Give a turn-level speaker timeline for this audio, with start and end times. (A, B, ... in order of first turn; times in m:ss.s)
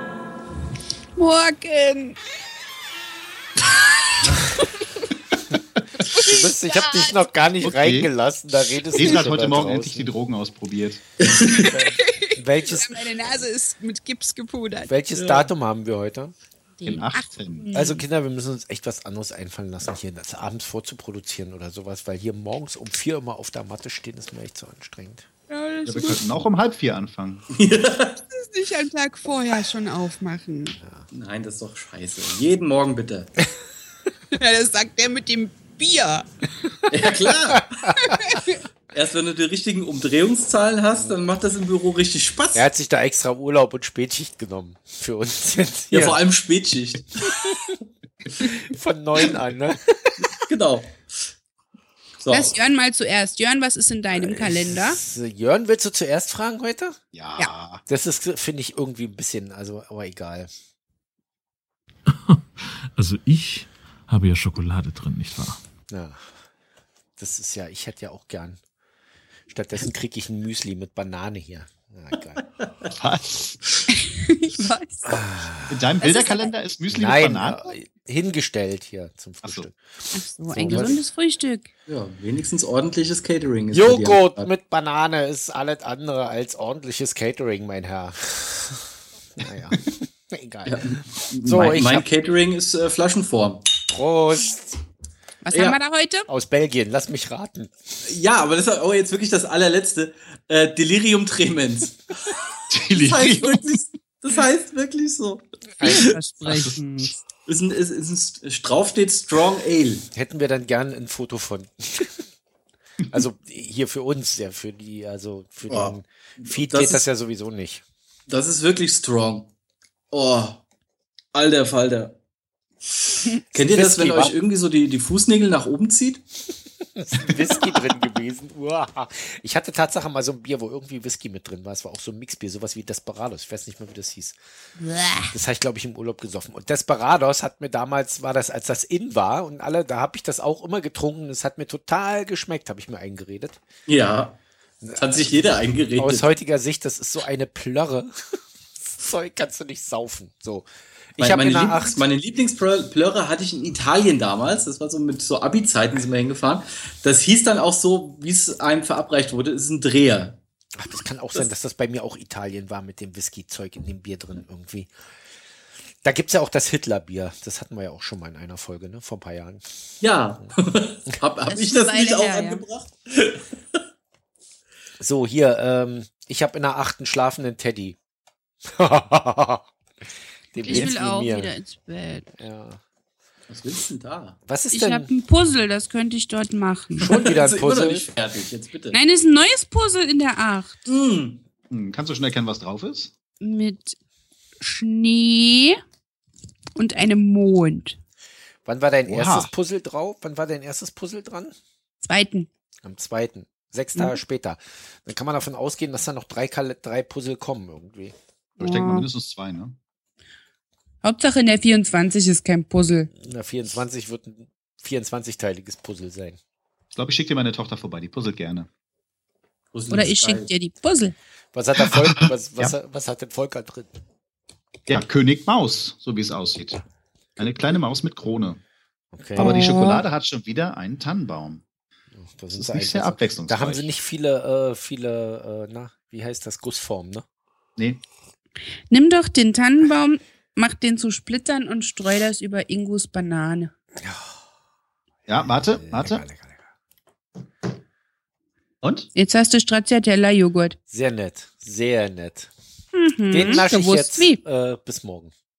0:01.2-0:02.2 A
0:06.1-0:07.2 A
0:06.2-0:10.1 B
0:07.6-0:08.1 C
0:08.9-0:11.0 C
0:08.9-0:09.2 A
0:11.2-0:11.8 D
0:11.6-0:14.9 A
0:11.7-0:13.0 B
0:14.8-0:16.3 B
0:15.1-0:15.5 D
0:16.8-0:18.0 A
0:16.8-0:17.7 C
0:17.7-0:25.3 B
0:25.5-0:26.2 A
0:25.8-0:27.5 C
0:27.6-0:28.2 D
0:28.3-0:30.8 A
0:30.8-0:31.1 B
0:31.1-0:33.3 D
0:34.3-0:36.3 A
0:36.9-0:37.9 D
0:38.0-0:38.6 A
0:38.9-0:42.7 D
0:42.5-0:46.2 B
0:45.9-0:47.6 D
0:48.4-0:50.2 B
0:50.2-0:51.1 D
0:52.2-0:52.6 D
0:52.3-0:55.0 A
0:54.1-0:57.0 B
0:57.1-0:57.8 C
0:57.9-1:00.5 B
1:02.1-1:02.4 E
1:02.9-1:05.6 E
1:05.9-1:06.2 B
1:07.2-1:08.6 B
1:09.5-1:12.4 B
1:12.9-1:13.6 C
1:13.9-1:15.2 A
1:15.0-1:15.9 B
1:15.7-1:17.6 C
1:16.0-1:16.5 A
1:16.9-1:19.8 B
1:20.1-1:21.7 A
1:20.5-1:21.0 B
1:20.6-1:21.0 D
1:21.9-1:24.5 D
1:23.7-1:30.8 B
1:30.6-1:33.6 D
1:31.4-1:32.0 B
1:33.9-1:34.8 B
1:35.4-1:36.3 A
1:35.5-1:35.8 D
1:36.3-1:37.7 B
1:38.0-1:46.1 D
1:42.7-1:43.6 C
1:45.8-1:46.1 B
1:45.8-1:47.2 A
1:47.4-1:50.1 D
1:50.1-1:52.2 B
1:53.1-1:57.8 B
1:55.7-1:57.1 D
1:58.3-1:59.5 D
2:00.1-2:00.6 D
2:01.3-2:02.2 D
2:03.0-2:06.2 D
2:03.5-2:04.3 B
2:06.8-2:14.4 B
2:07.3-2:07.9 D
2:14.8-2:15.3 A
2:15.3-2:23.6 B
2:23.9-2:24.4 D
2:24.8-2:25.3 B
2:25.0-2:26.3 D
2:26.0-2:28.1 B
2:28.8-2:32.0 B
2:31.2-2:40.4 D
2:40.8-2:44.9 B
2:46.0-2:49.6 B
2:50.0-2:53.8 D
2:51.5-2:52.6 A
2:55.0-2:58.0 B
2:58.7-2:59.6 B
3:00.5-3:01.5 B
3:00.6-3:02.4 A
3:02.4-3:02.8 B
3:03.5-3:04.4 D
3:04.4-3:05.1 B
3:04.7-3:07.1 A
3:07.0-3:08.1 B
3:07.0-3:09.0 D
3:08.9-3:10.9 A
3:10.9-3:11.4 D
3:11.7-3:13.1 C
3:13.4-3:14.0 A
3:14.6-3:15.8 A
3:16.8-3:18.0 A
3:18.6-3:21.5 B
3:19.1-3:19.5 C
3:22.0-3:22.5 A
3:22.8-3:28.1 B
3:28.6-3:29.1 A
3:28.6-3:29.8 C
3:31.0-3:33.1 A
3:33.2-3:36.4 B
3:36.9-3:38.7 C
3:39.7-3:40.5 D
3:39.9-3:41.1 A
3:41.5-3:43.9 B
3:41.8-3:42.7 C
3:44.9-3:46.8 C
3:47.4-3:48.6 C
3:49.1-3:49.7 B
3:49.4-3:50.0 A
3:49.4-3:51.6 C
3:52.1-3:57.2 B
3:52.5-3:53.9 C
3:58.9-4:03.7 A
4:04.0-4:04.4 B
4:05.3-4:06.2 C
4:05.7-4:06.7 B
4:08.8-4:09.1 C
4:09.1-4:10.8 A
4:10.9-4:12.5 B
4:12.9-4:14.4 A
4:13.3-4:15.3 B